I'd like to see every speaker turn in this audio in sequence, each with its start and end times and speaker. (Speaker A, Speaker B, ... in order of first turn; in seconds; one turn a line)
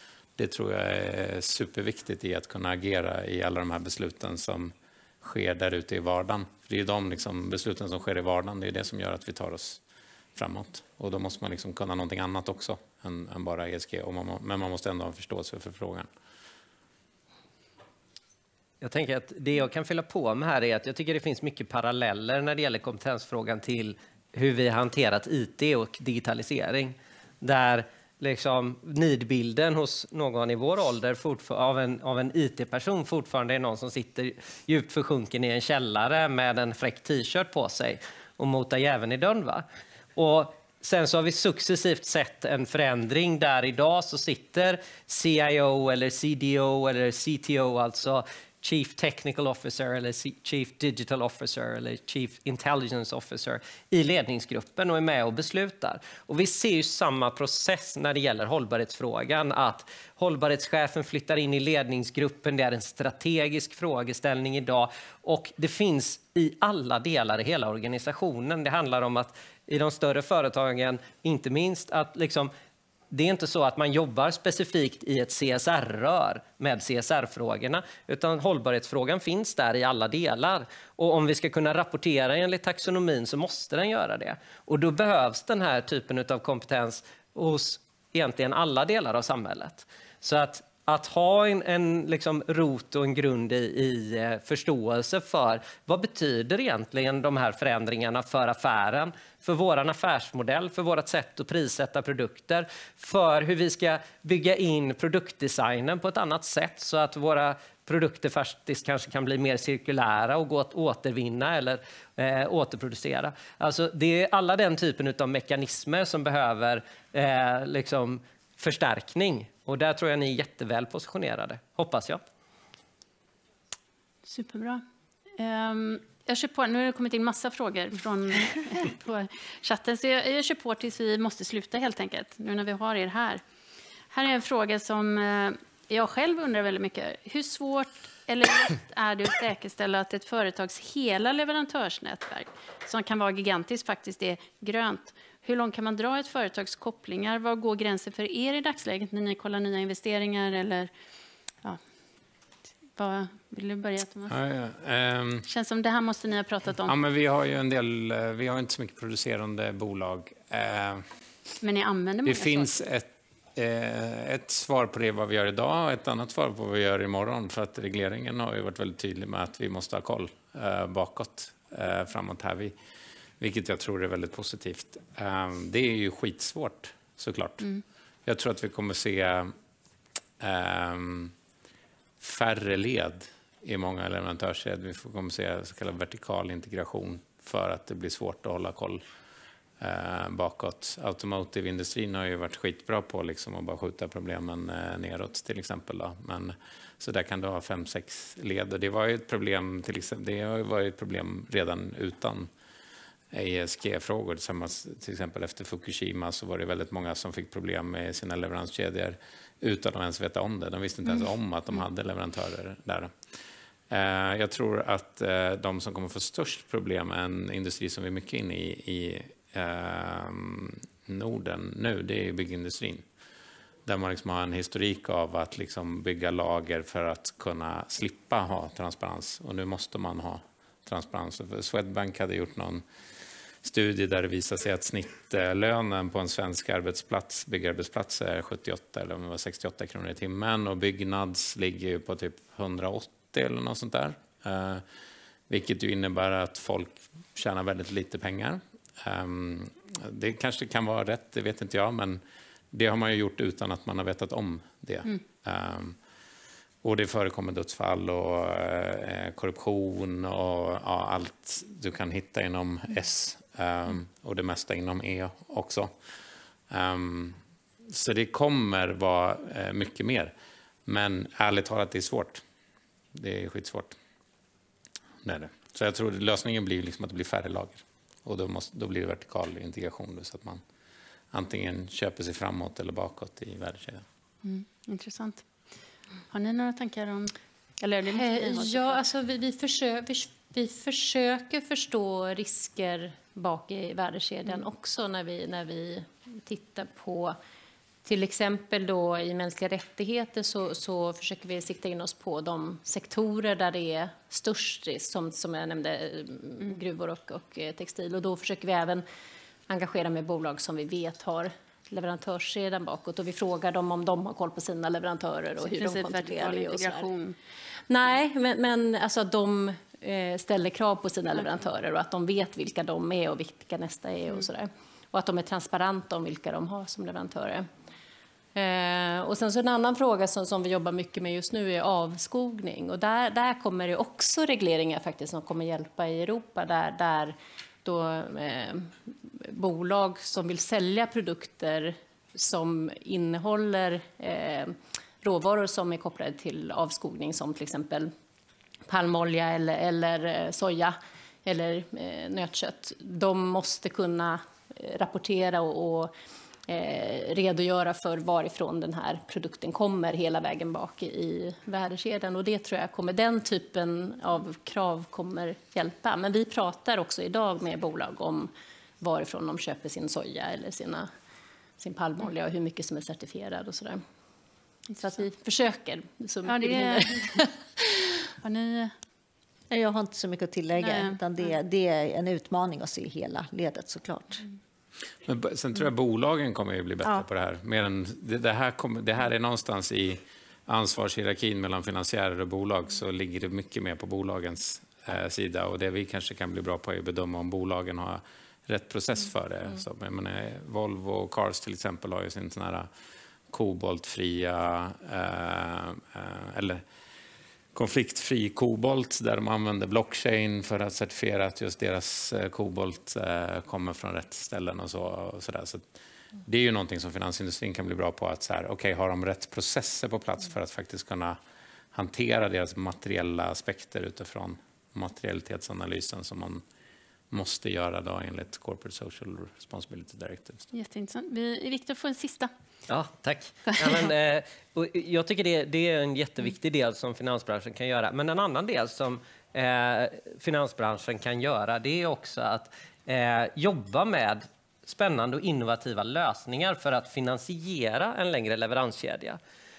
Speaker A: 0.4-9.8
Speaker A: 10.4-16.1
Speaker B: 18.8-39.6
Speaker B: 40.2-72.5
Speaker B: 73.1-122.2
Speaker C: 124.2-124.8
Speaker C: 125.4-133.4
Speaker C: 134.1-150.9
Speaker C: 153.0-154.4
Speaker A: 154.3-155.4
Speaker C: 155.5-156.9
Speaker A: 156.9-161.1
Speaker C: 161.6-162.7
Speaker A: 162.3-172.8
Speaker A: 173.4-179.5
Speaker A: 180.4-181.3
Speaker A: 182.2-189.0
Speaker A: 189.8-202.5
Speaker A: 203.3-213.1
Speaker A: 213.9-223.1
Speaker A: 223.9-232.8
Speaker A: 233.6-244.8
Speaker A: 245.5-256.0
Speaker A: 256.8-265.9
Speaker A: 266.7-270.3
Speaker A: 270.9-272.4
Speaker A: 273.1-274.0
Speaker A: 275.2-280.6
Speaker A: 281.3-284.1
Speaker C: 284.4-285.5
Speaker C: 286.3-289.0
Speaker D: 288.1-297.4
Speaker D: 298.1-309.0
Speaker D: 309.7-317.1
Speaker C: 315.7-317.4
Speaker D: 317.9-327.7
Speaker D: 328.6-348.1
Speaker D: 348.9-356.1
Speaker D: 356.7-371.1
Speaker D: 371.8-374.0
Speaker C: 374.9-375.2
Speaker D: 375.0-378.1
Speaker C: 376.5-377.2
Speaker C: 378.4-378.9
Speaker E: 379.7-384.5
Speaker C: 380.8-381.2
Speaker A: 385.2-402.9
Speaker A: 403.5-406.8
Speaker A: 407.7-415.9
Speaker A: 416.4-421.4
Speaker A: 421.9-426.6
Speaker A: 427.3-430.6
Speaker C: 430.7-432.5
Speaker B: 432.9-449.4